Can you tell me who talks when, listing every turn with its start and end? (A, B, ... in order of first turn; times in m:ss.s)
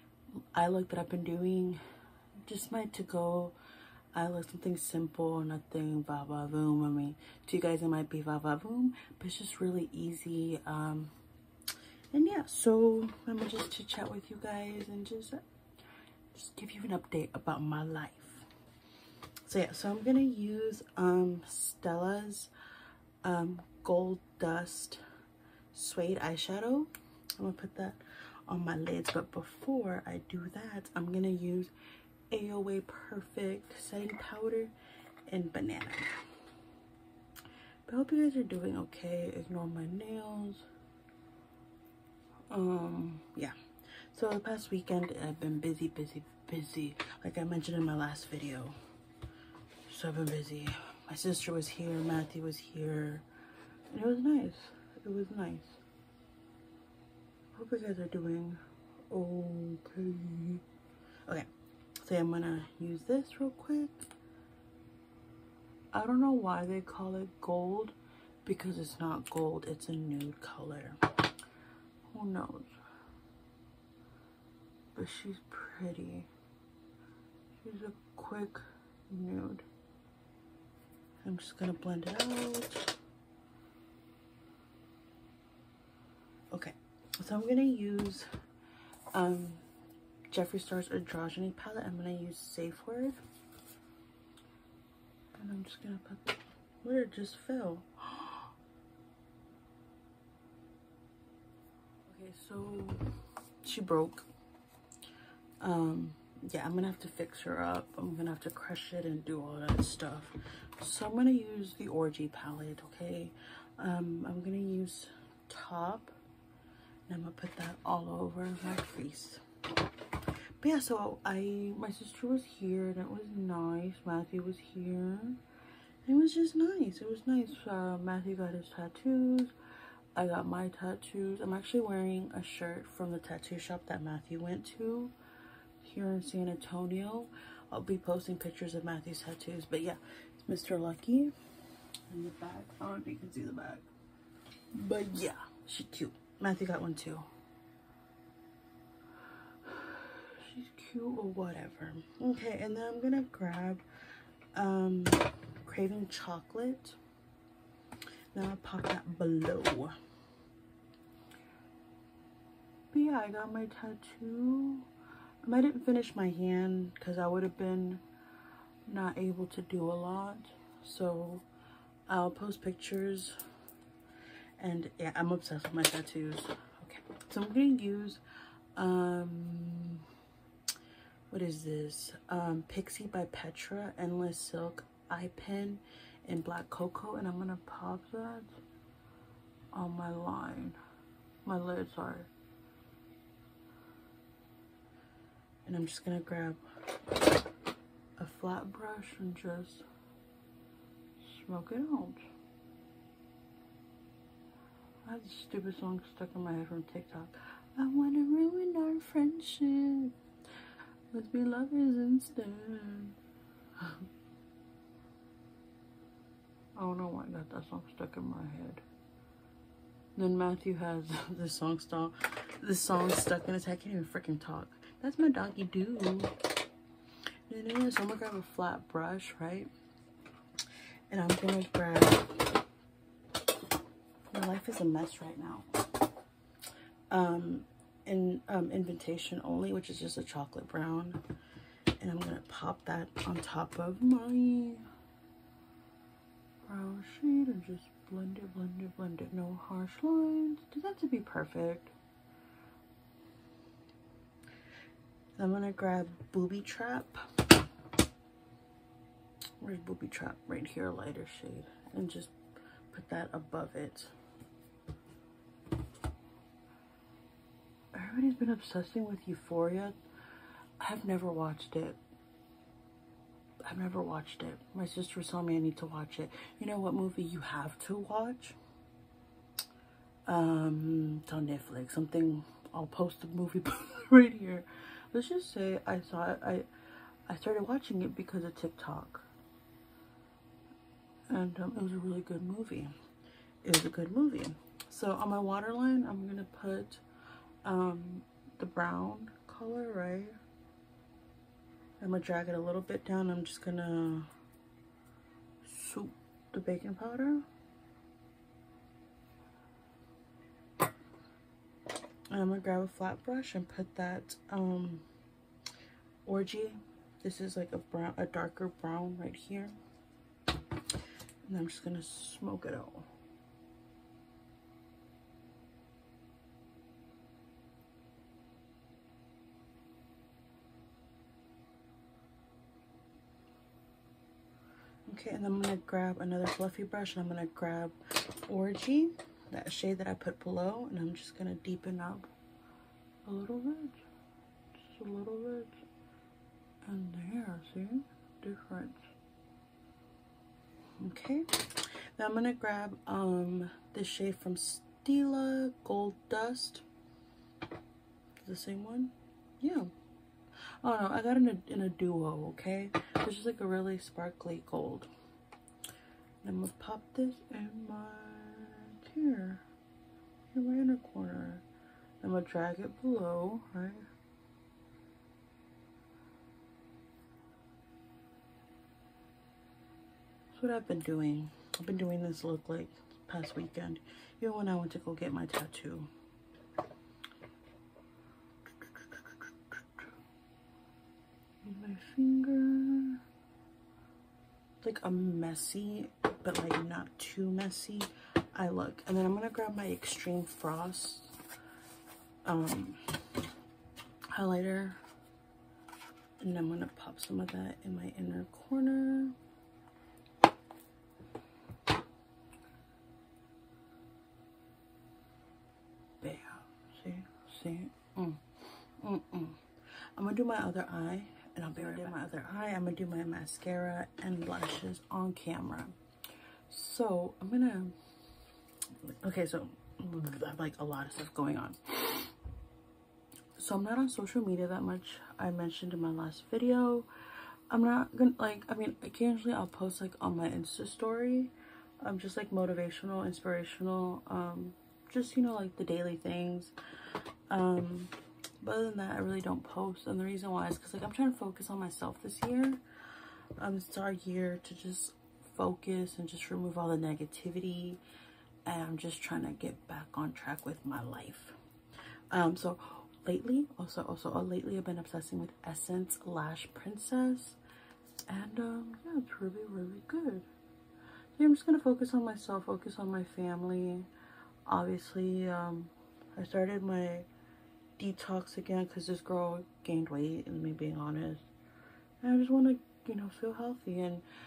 0:00.5-0:01.8 A
0:02.4-0:03.6 A
0:04.1-0:11.1 A
0:12.1-0:15.4 A
0:16.3-0:18.4 A
0:19.4-0:22.5 A
0:23.2-0:25.0 A
0:25.7-0:31.7 A
0:32.3-0:34.7 A
0:35.3-0:36.1 A
0:37.9-0:40.6 A
0:42.5-0:43.6 A
0:44.1-0:48.8 A
0:49.9-0:53.2 A
0:53.9-0:55.8 A
0:57.5-1:00.6 A
1:02.0-1:04.1 A
1:05.9-1:11.0 A
1:12.1-1:12.8 A
1:14.9-1:16.3 A
1:17.6-1:19.6 A
1:21.2-1:22.9 A
1:26.5-1:28.3 A
1:29.1-1:29.6 A
1:30.3-1:33.2 A
1:35.4-1:38.5 A
1:42.0-1:43.0 A
1:43.6-1:44.3 A
1:45.6-1:56.2 A
1:57.1-1:59.4 A
2:00.6-2:05.4 A
2:06.0-2:09.5 A
2:10.1-2:15.1 A
2:15.8-2:21.3 A
2:22.1-2:23.9 A
2:24.7-2:27.3 A
2:29.6-2:33.8 A
2:34.5-2:37.0 A
2:38.3-2:40.0 A
2:42.9-2:44.9 A
2:45.4-2:48.0 A
2:48.9-2:51.4 A
2:52.1-2:53.4 A
2:54.6-2:58.2 A
2:58.8-3:00.1 A
3:01.3-3:08.6 A
3:09.7-3:10.8 A
3:11.4-3:12.3 A
3:15.6-3:16.6 A
3:18.2-3:19.8 A
3:21.2-3:22.2 A
3:25.0-3:30.2 A
3:31.1-3:33.2 A
3:33.8-3:34.0 A
3:36.7-3:38.8 A
3:40.1-3:46.3 A
3:47.5-3:49.7 A
3:51.1-3:52.5 A
3:54.3-3:55.7 A
3:57.1-4:01.2 A
4:02.0-4:04.8 A
4:06.6-4:11.9 A
4:15.4-4:17.5 A
4:19.6-4:22.3 A
4:22.9-4:24.1 A
4:27.9-4:29.9 A
4:30.8-4:32.0 A
4:33.6-4:38.6 A
4:40.2-4:46.7 A
4:47.3-4:49.3 A
4:51.3-4:52.9 A
4:53.6-4:57.0 A
4:57.6-5:00.4 A
5:02.0-5:04.3 A
5:05.6-5:07.4 A
5:12.3-5:15.0 A
5:16.2-5:19.8 A
5:21.4-5:23.1 A
5:35.1-5:42.3 A
5:43.2-5:44.0 A
5:44.8-5:45.8 A
5:46.8-5:49.1 A
5:51.0-5:56.8 A
5:58.4-5:59.9 A
6:00.8-6:05.1 A
6:06.4-6:09.6 A
6:10.5-6:11.6 A
6:12.2-6:14.1 A
6:20.5-6:26.1 A
6:28.8-6:30.0 A
6:31.6-6:33.2 A
6:34.8-6:41.4 A
6:42.4-6:43.2 A
6:44.3-6:45.0 A
6:46.4-6:49.4 A
6:56.2-6:59.6 A
7:00.2-7:06.0 A
7:06.7-7:08.0 A
7:09.1-7:12.3 A
7:13.6-7:17.1 A
7:17.7-7:26.7 A
7:27.5-7:32.8 A
7:33.6-7:38.0 A
7:38.6-7:41.5 A
7:42.3-7:47.6 A
7:48.3-7:50.5 A
7:51.4-7:54.1 A
7:54.6-7:57.3 A
7:58.0-8:01.5 A
8:02.2-8:04.2 A